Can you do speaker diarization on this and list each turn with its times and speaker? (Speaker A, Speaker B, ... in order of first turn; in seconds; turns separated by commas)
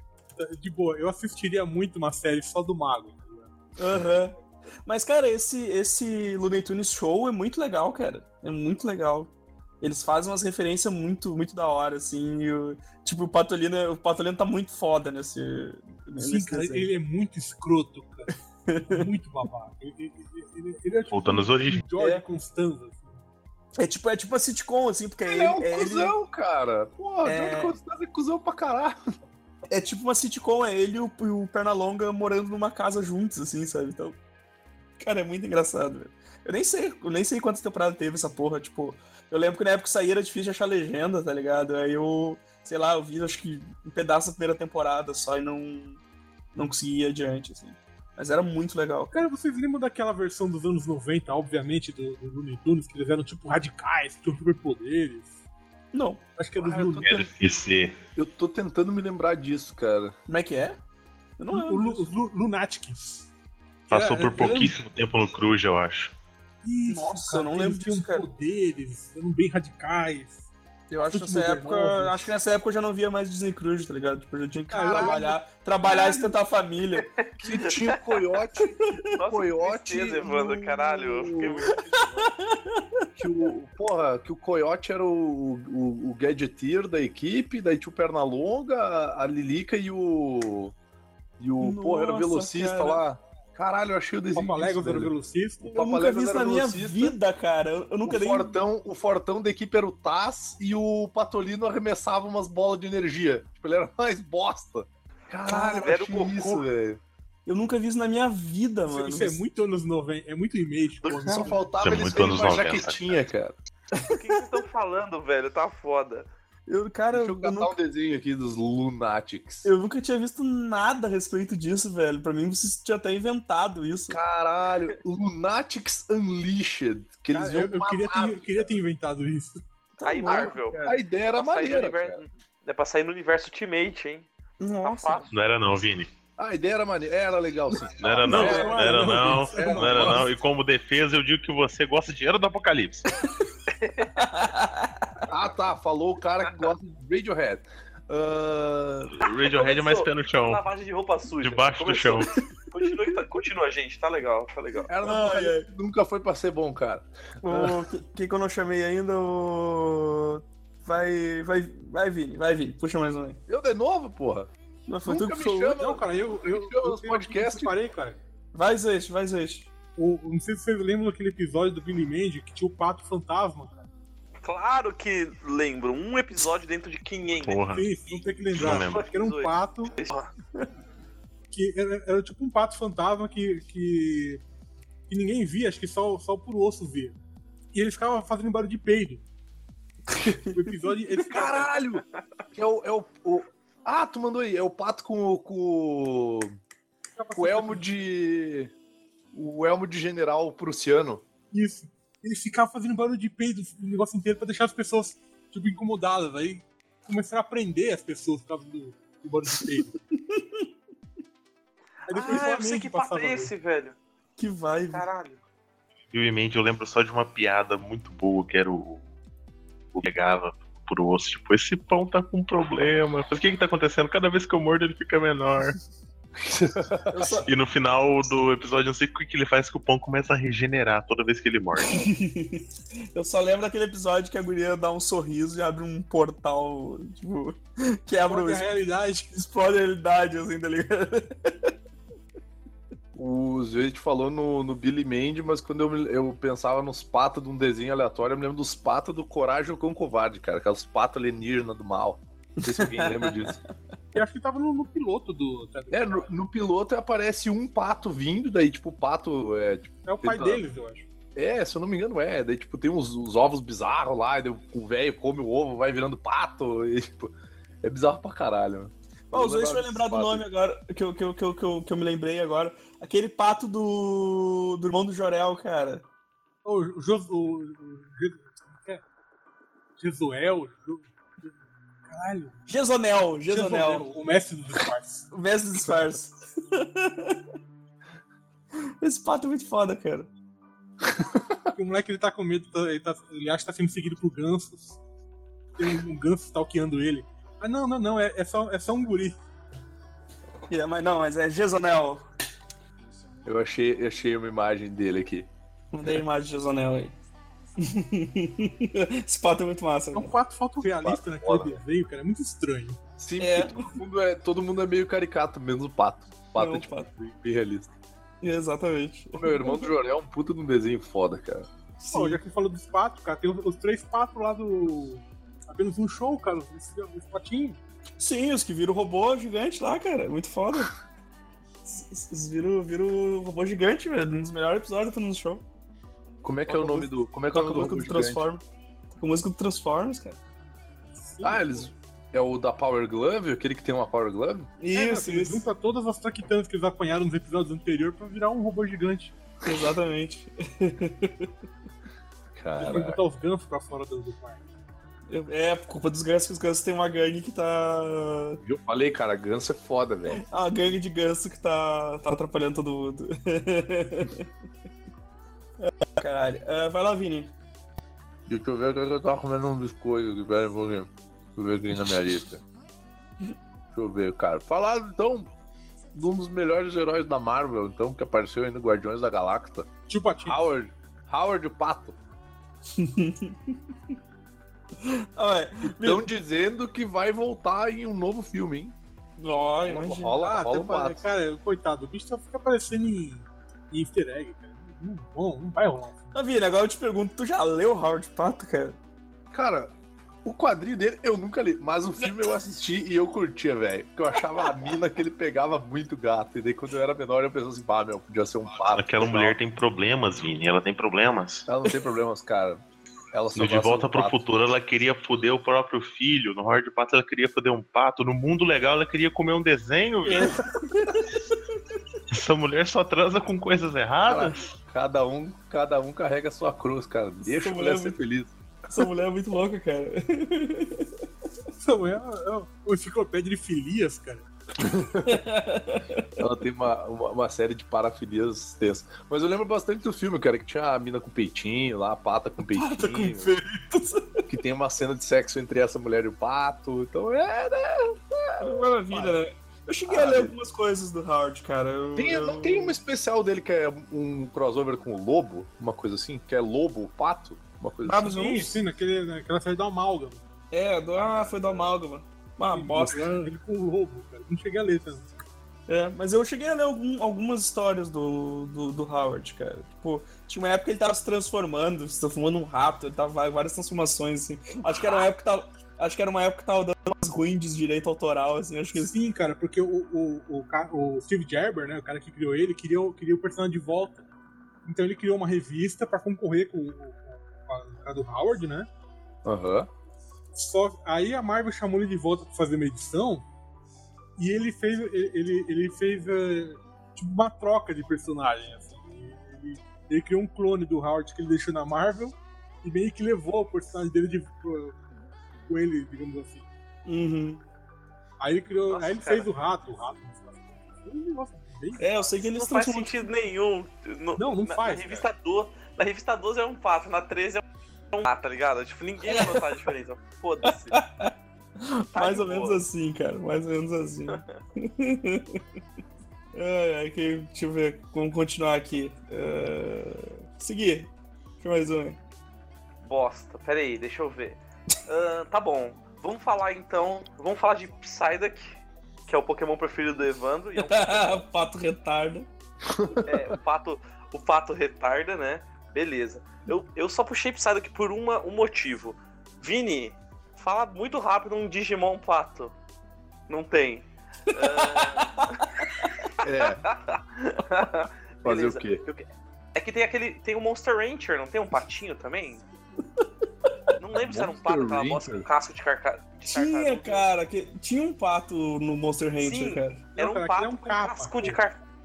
Speaker A: 0.4-3.5, Speaker B: 3.8-16.9, Speaker A: 16.2-23.2, Speaker B: 18.7-19.1, Speaker C: 21.1-21.8, Speaker B: 22.0-22.2, Speaker B: 23.8-26.2, Speaker D: 25.2-29.0, Speaker B: 27.2-27.8, Speaker B: 29.7-34.2, Speaker B: 35.0-46.0, Speaker B: 46.5-49.2, Speaker A: 49.1-55.3, Speaker B: 55.9-56.2, Speaker A: 56.4-57.2, Speaker D: 56.6-57.3, Speaker C: 57.0-58.0, Speaker D: 58.1-60.1, Speaker B: 60.3-60.8, Speaker B: 61.4-62.1, Speaker A: 61.5-63.3, Speaker A: 63.9-64.7, Speaker C: 63.9-66.1, Speaker B: 64.3-64.7, Speaker A: 66.6-70.5, Speaker B: 66.9-68.3, Speaker B: 70.9-77.1, Speaker A: 71.1-72.3, Speaker A: 74.7-76.4, Speaker D: 74.8-75.2, Speaker D: 77.4-81.7, Speaker E: 79.2-82.0, Speaker B: 82.2-83.1, Speaker D: 83.2-90.7, Speaker D: 91.4-97.2, Speaker B: 91.6-93.0, Speaker A: 94.3-95.8, Speaker B: 95.7-98.6, Speaker D: 98.0-107.0, Speaker B: 105.5-105.9, Speaker E: 105.8-106.7, Speaker B: 107.5-109.4, Speaker A: 108.9-111.8, Speaker D: 111.2-113.6, Speaker C: 111.8-113.2, Speaker B: 114.0-114.4, Speaker E: 114.1-116.3, Speaker B: 116.7-117.8, Speaker D: 117.1-119.7, Speaker B: 119.6-124.2, Speaker D: 124.1-128.7, Speaker A: 127.3-129.6, Speaker B: 130.0-130.9, Speaker E: 130.0-130.8, Speaker D: 130.2-132.2, Speaker E: 131.3-134.3, Speaker B: 134.6-135.2, Speaker E: 134.8-135.3, Speaker C: 135.3-136.1, Speaker D: 136.4-140.3, Speaker C: 138.0-143.1, Speaker A: 138.2-140.3, Speaker B: 138.3-138.7, Speaker E: 143.7-144.1, Speaker B: 144.2-145.2, Speaker D: 145.3-149.1, Speaker C: 149.1-150.6, Speaker E: 149.5-154.9, Speaker C: 151.4-152.3, Speaker D: 154.9-157.8, Speaker B: 155.0-155.7, Speaker B: 157.4-163.4, Speaker D: 163.5-164.5, Speaker B: 164.9-165.8, Speaker D: 165.1-167.7, Speaker A: 165.8-168.2, Speaker B: 168.5-169.7, Speaker A: 170.0-173.9, Speaker E: 174.4-180.3, Speaker C: 177.4-177.9, Speaker A: 177.7-179.9, Speaker C: 178.5-179.1, Speaker A: 181.5-184.4, Speaker A: 185.1-187.2, Speaker A: 187.7-189.2, Speaker B: 190.1-190.7, Speaker A: 190.4-191.8, Speaker D: 191.3-196.6, Speaker A: 197.2-197.9, Speaker D: 197.3-198.7, Speaker D: 199.3-201.2, Speaker A: 201.5-210.0, Speaker B: 210.2-210.7, Speaker A: 212.1-213.5, Speaker E: 212.1-214.0, Speaker B: 214.4-215.1, Speaker E: 214.9-215.4, Speaker C: 216.1-219.0, Speaker C: 219.9-225.8, Speaker D: 226.4-227.4, Speaker B: 227.1-227.5, Speaker C: 227.4-232.1, Speaker B: 231.9-238.7, Speaker A: 238.3-239.3, Speaker B: 239.3-241.7, Speaker D: 243.2-253.6, Speaker B: 252.7-253.6, Speaker A: 254.1-256.3, Speaker D: 255.9-260.6, Speaker A: 260.1-261.1, Speaker D: 261.4-270.4, Speaker B: 269.3-276.1, Speaker A: 276.6-279.0, Speaker A: 280.0-282.6, Speaker B: 282.7-284.1, Speaker A: 283.5-285.3, Speaker B: 285.3-287.4, Speaker B: 289.0-290.3, Speaker D: 291.1-291.7, Speaker A: 291.7-295.0, Speaker A: 295.8-299.4, Speaker B: 300.7-302.2, Speaker D: 303.4-305.5, Speaker B: 305.9-307.2, Speaker B: 307.8-310.4, Speaker A: 310.1-313.0, Speaker D: 311.0-311.8, Speaker D: 313.2-317.9, Speaker B: 313.4-313.9, Speaker B: 316.6-317.1, Speaker B: 318.4-319.9, Speaker D: 319.4-321.7, Speaker B: 322.0-322.4, Speaker A: 322.1-327.8, Speaker B: 328.2-330.9, Speaker B: 331.9-335.6, Speaker D: 336.4-338.5, Speaker B: 336.7-340.4, Speaker A: 341.2-341.9, Speaker D: 341.4-344.7, Speaker B: 344.8-345.6, Speaker A: 344.9-349.4, Speaker B: 349.6-351.5, Speaker D: 352.6-353.2, Speaker A: 352.8-354.7, Speaker B: 355.3-358.6, Speaker D: 358.6-360.4, Speaker B: 360.4-364.5, Speaker B: 365.8-367.5, Speaker D: 368.5-372.6, Speaker D: 373.9-375.5, Speaker D: 376.1-379.9, Speaker A: 380.1-380.6, Speaker D: 380.4-382.2, Speaker B: 382.9-383.8, Speaker B: 385.0-386.3, Speaker D: 385.9-388.9, Speaker B: 389.4-390.4, Speaker D: 389.9-391.2, Speaker A: 390.4-396.4, Speaker B: 396.3-399.0, Speaker D: 399.5-399.9, Speaker D: 400.4-409.6, Speaker C: 408.9-411.7, Speaker D: 411.7-414.4, Speaker C: 413.6-420.6, Speaker B: 420.4-421.2, Speaker C: 422.3-424.7, Speaker D: 424.3-429.1, Speaker B: 427.4-428.2, Speaker B: 428.9-431.1, Speaker A: 431.8-434.5, Speaker D: 434.8-435.4, Speaker B: 435.2-436.3, Speaker D: 436.4-443.5, Speaker B: 442.7-444.4, Speaker D: 444.5-449.4, Speaker B: 448.6-453.0, Speaker D: 450.1-450.5, Speaker D: 452.2-458.3, Speaker B: 458.1-458.8, Speaker A: 458.3-460.4, Speaker B: 460.7-463.4, Speaker D: 461.2-462.0, Speaker A: 462.7-465.4, Speaker B: 465.9-479.1, Speaker A: 478.9-484.2, Speaker A: 484.8-488.9, Speaker D: 489.4-489.9, Speaker A: 490.5-493.5, Speaker A: 494.4-505.0, Speaker A: 505.7-506.7, Speaker B: 507.1-507.6, Speaker A: 508.4-512.2, Speaker E: 508.9-509.5, Speaker B: 512.0-513.2, Speaker E: 512.5-521.0, Speaker A: 514.4-515.3, Speaker B: 519.2-519.8, Speaker B: 520.9-525.6, Speaker E: 522.1-522.8, Speaker B: 526.5-531.1, Speaker B: 531.6-532.2, Speaker E: 533.0-541.4, Speaker B: 540.8-542.5, Speaker D: 542.9-543.6, Speaker E: 543.2-552.7, Speaker E: 553.5-555.6, Speaker B: 554.5-556.1, Speaker D: 556.4-556.8, Speaker E: 556.4-562.6, Speaker D: 558.4-559.0, Speaker E: 564.0-567.3, Speaker D: 564.1-565.5, Speaker B: 566.5-570.0, Speaker E: 569.4-571.8, Speaker A: 570.2-571.6